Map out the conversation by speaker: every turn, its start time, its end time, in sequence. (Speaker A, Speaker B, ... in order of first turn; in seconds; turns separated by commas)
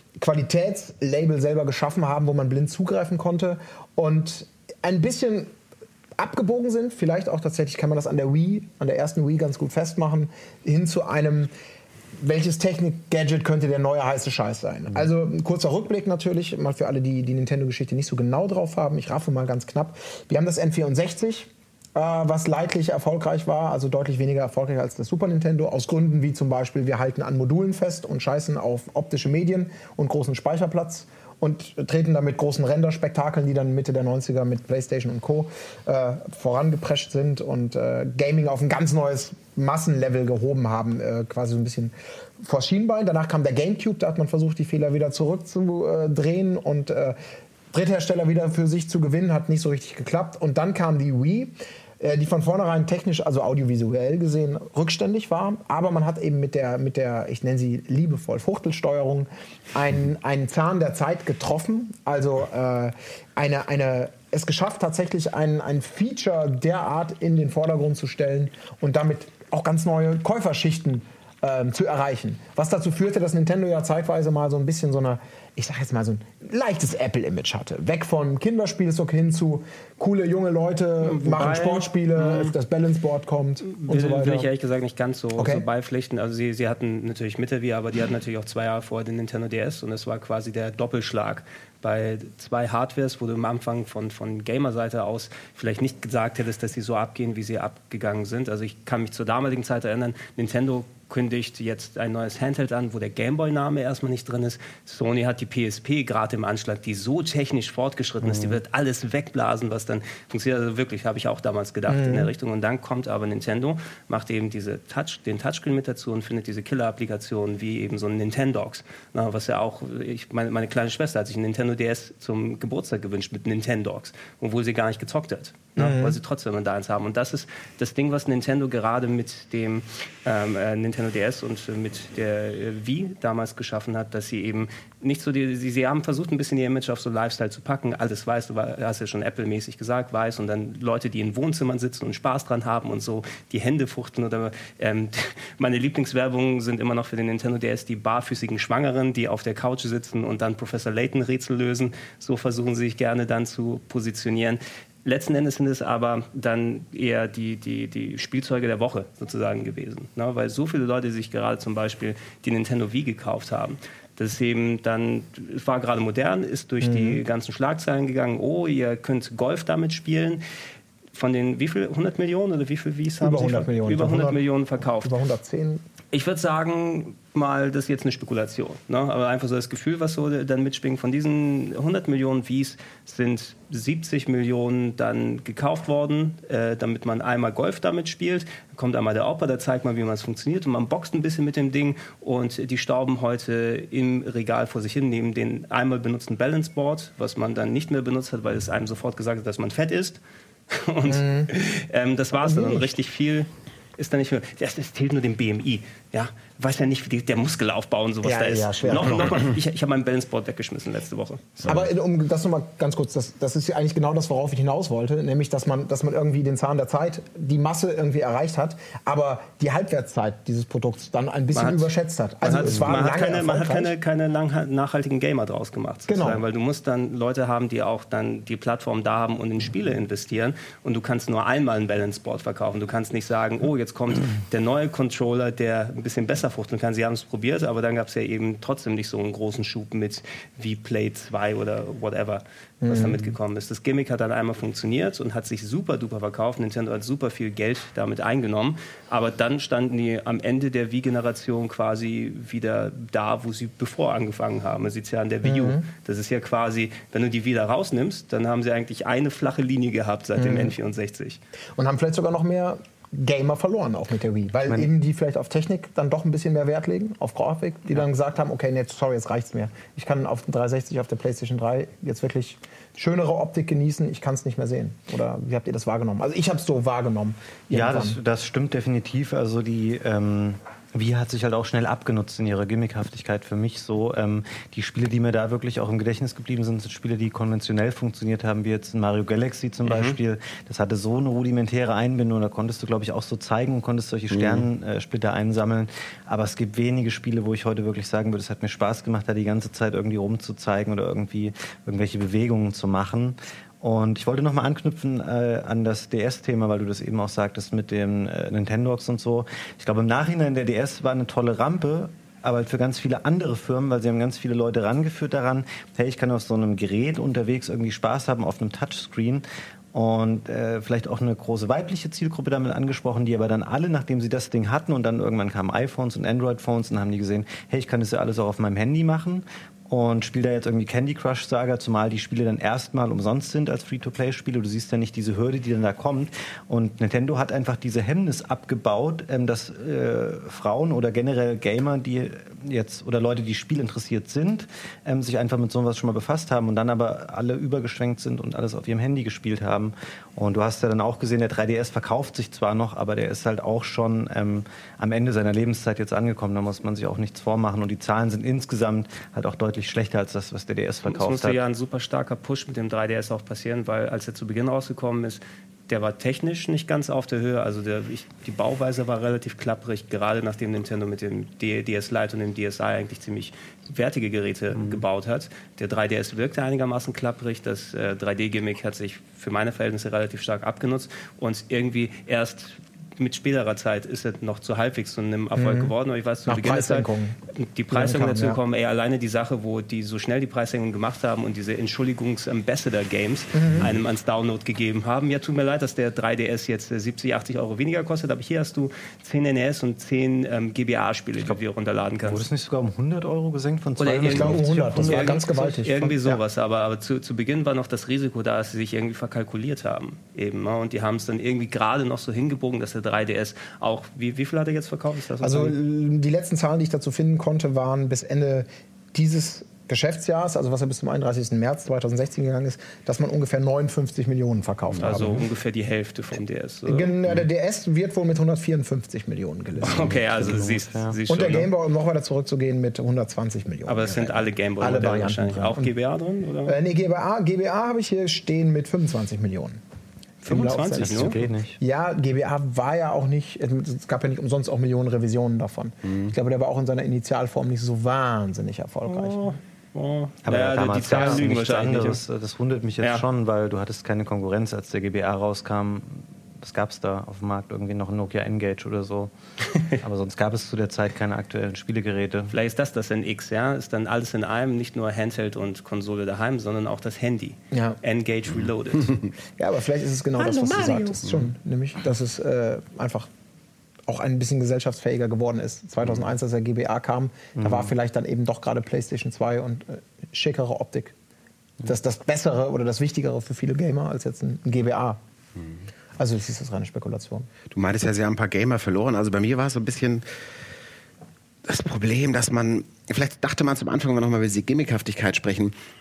Speaker A: 0.2-5.5, Speaker A: 6.2-11.5, Speaker A: 12.2-47.2, Speaker A: 47.7-84.5, Speaker B: 81.0-82.5, Speaker B: 83.7-170.4, Speaker A: 85.4-85.6, Speaker C: 108.3-108.6, Speaker A: 111.9-112.3, Speaker A: 125.8-126.2, Speaker A: 166.8-167.2, Speaker B: 171.1-175.1, Speaker A: 173.2-175.8, Speaker B: 176.1-211.6, Speaker A: 201.1-201.5, Speaker A: 202.4-202.9, Speaker A: 208.2-209.5, Speaker A: 211.6-223.9, Speaker B: 221.5-221.9, Speaker B: 222.4-261.4, Speaker A: 226.1-226.4, Speaker A: 242.8-243.4, Speaker A: 255.4-255.8, Speaker A: 260.4-260.7, Speaker A: 261.8-278.2, Speaker C: 277.7-361.6, Speaker B: 289.9-290.2, Speaker D: 294.3-294.7, Speaker B: 361.1-402.5, Speaker A: 385.6-385.9, Speaker A: 386.4-387.4, Speaker A: 387.9-388.6, Speaker A: 393.5-393.9, Speaker C: 402.3-405.4, Speaker B: 404.0-415.8, Speaker A: 404.3-406.4, Speaker A: 415.4-425.4, Speaker B: 425.0-427.1, Speaker A: 426.9-430.4, Speaker C: 429.8-431.2, Speaker B: 429.8-431.7, Speaker A: 431.3-435.9, Speaker B: 433.9-436.8, Speaker A: 436.6-439.8, Speaker A: 440.4-449.5, Speaker B: 440.4-441.4, Speaker C: 441.0-441.8, Speaker B: 449.1-452.2, Speaker C: 450.4-459.3, Speaker A: 451.1-451.4, Speaker C: 459.9-462.5, Speaker B: 462.5-469.2, Speaker A: 467.7-468.0, Speaker A: 469.6-473.3, Speaker D: 470.4-471.5, Speaker A: 474.1-481.1, Speaker C: 477.6-477.9, Speaker A: 481.9-485.2, Speaker A: 486.2-487.5, Speaker D: 487.7-490.3, Speaker D: 491.7-495.7